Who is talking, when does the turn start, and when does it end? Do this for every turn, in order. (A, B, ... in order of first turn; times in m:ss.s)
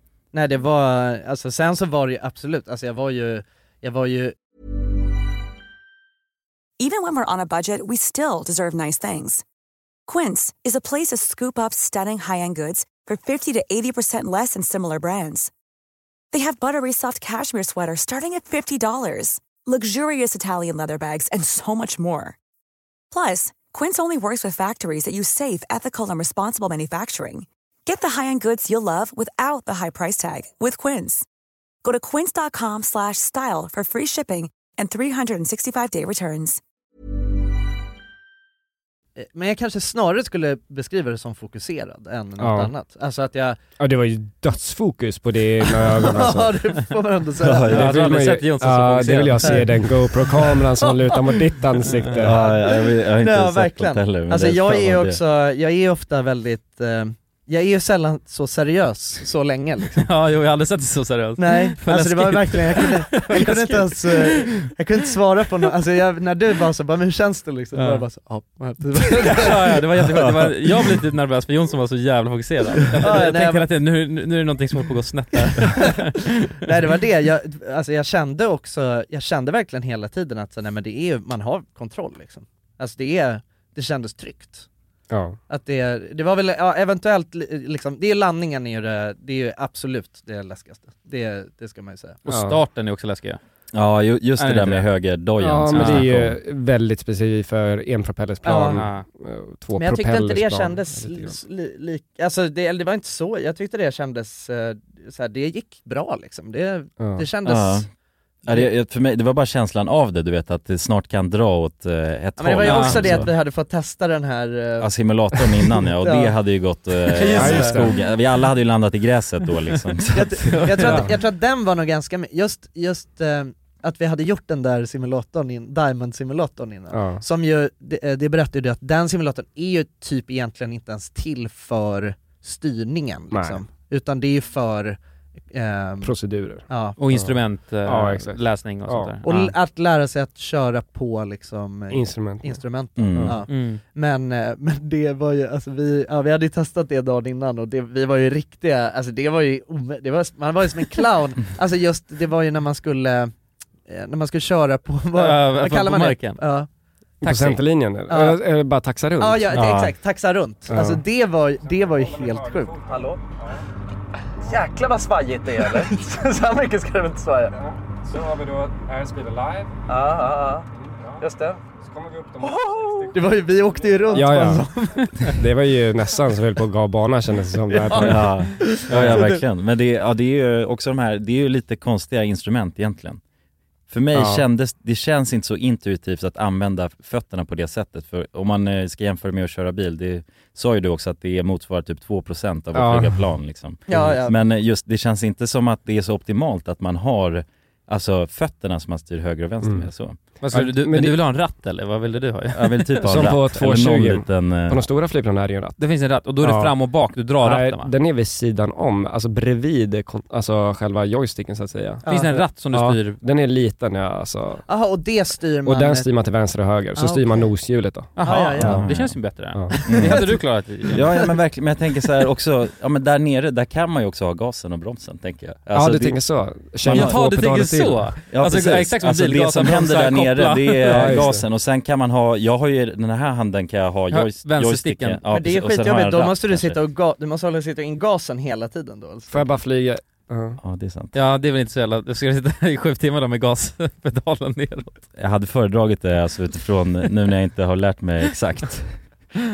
0:00.3-0:04.4 A
0:06.8-0:09.4 B
0:10.1-0:15.5 B
0:16.3-0:22.4 B
0:23.1-0:31.3 B
0:31.8-0:36.6 B
0:39.2-0:43.6 A
0:42.4-0:42.7 C
0:43.8-0:46.9 C
0:45.7-0:48.0 A
0:47.4-0:48.1 D
0:47.7-0:52.4 C
0:47.7-0:49.6 E
0:50.4-0:51.6 A
0:52.2-0:55.2 D
0:52.2-1:00.1 A
1:00.0-1:04.7 E
1:01.4-1:09.9 A
1:07.7-1:08.0 E
1:09.0-1:16.5 E
1:13.0-1:13.6 A
1:15.5-1:16.0 A
1:16.6-1:24.7 A
1:25.1-1:25.4 C
1:25.5-1:32.2 A
1:32.3-1:33.4 E
1:32.3-1:32.6 C
1:33.7-1:36.4 D
1:34.4-1:34.9 E
1:35.4-1:41.4 C
1:35.7-1:36.1 E
1:38.4-1:38.8 A
1:38.7-1:39.1 E
1:39.7-1:47.9 A
1:47.0-1:47.2 C
1:47.4-1:47.8 D
1:48.4-1:53.3 D
1:52.4-1:54.9 A
1:52.6-1:53.0 E
1:54.8-2:01.0 D
1:56.0-1:56.3 A
1:57.1-1:57.8 A
1:57.3-1:57.9 C
2:00.1-2:15.0 A
2:00.4-2:01.0 E
2:00.9-2:01.1 C
2:06.9-2:07.2 C
2:13.3-2:13.6 C
2:15.5-2:16.1 A
2:16.0-2:19.2 C
2:16.7-2:17.0 A
2:17.0-2:19.5 E
2:19.2-2:33.3 A
2:21.9-2:23.4 C
2:23.0-2:23.4 D
2:23.5-2:23.8 E
2:33.9-2:36.7 A
2:35.2-2:36.4 E
2:37.2-2:39.6 C
2:37.3-2:37.6 E
2:38.1-2:38.4 A
2:39.2-2:43.2 A
2:39.5-2:39.9 D
2:40.7-2:41.0 C
2:41.6-2:43.6 C
2:44.4-2:47.6 A
2:47.6-2:49.9 C
2:49.9-2:50.7 A
2:50.8-2:53.5 C
2:51.2-2:51.6 A
2:52.6-2:55.4 A
2:54.1-2:59.2 C
2:57.7-2:59.4 A
2:57.9-3:03.2 D
3:03.9-3:20.2 D
3:04.1-3:04.4 C
3:12.7-3:13.2 C
3:13.9-3:14.4 A
3:19.6-3:19.9 C
3:20.4-3:22.9 E
3:20.5-3:21.2 C
3:22.6-3:24.8 D
3:23.0-3:25.8 C
3:25.8-3:27.9 E
3:26.4-3:26.7 C
3:27.4-3:34.6 C
3:32.0-3:32.4 A
3:32.1-3:33.2 E
3:34.7-3:36.1 A
3:35.6-3:38.8 C
3:37.0-3:37.4 A
3:38.2-3:41.1 E
3:38.2-3:38.8 A
3:38.6-3:39.1 D
3:39.5-3:39.8 C
3:39.9-3:40.4 D
3:40.0-3:40.4 A
3:40.9-3:46.3 D
3:45.7-3:48.1 C
3:46.8-3:47.2 D
3:46.9-3:51.2 E
3:48.3-3:56.8 D
3:50.9-3:51.4 C
3:54.1-3:55.2 E
3:55.3-3:59.4 A
3:59.3-4:00.6 C
4:00.6-4:01.1 D
4:01.1-4:05.0 E
4:05.2-4:09.0 D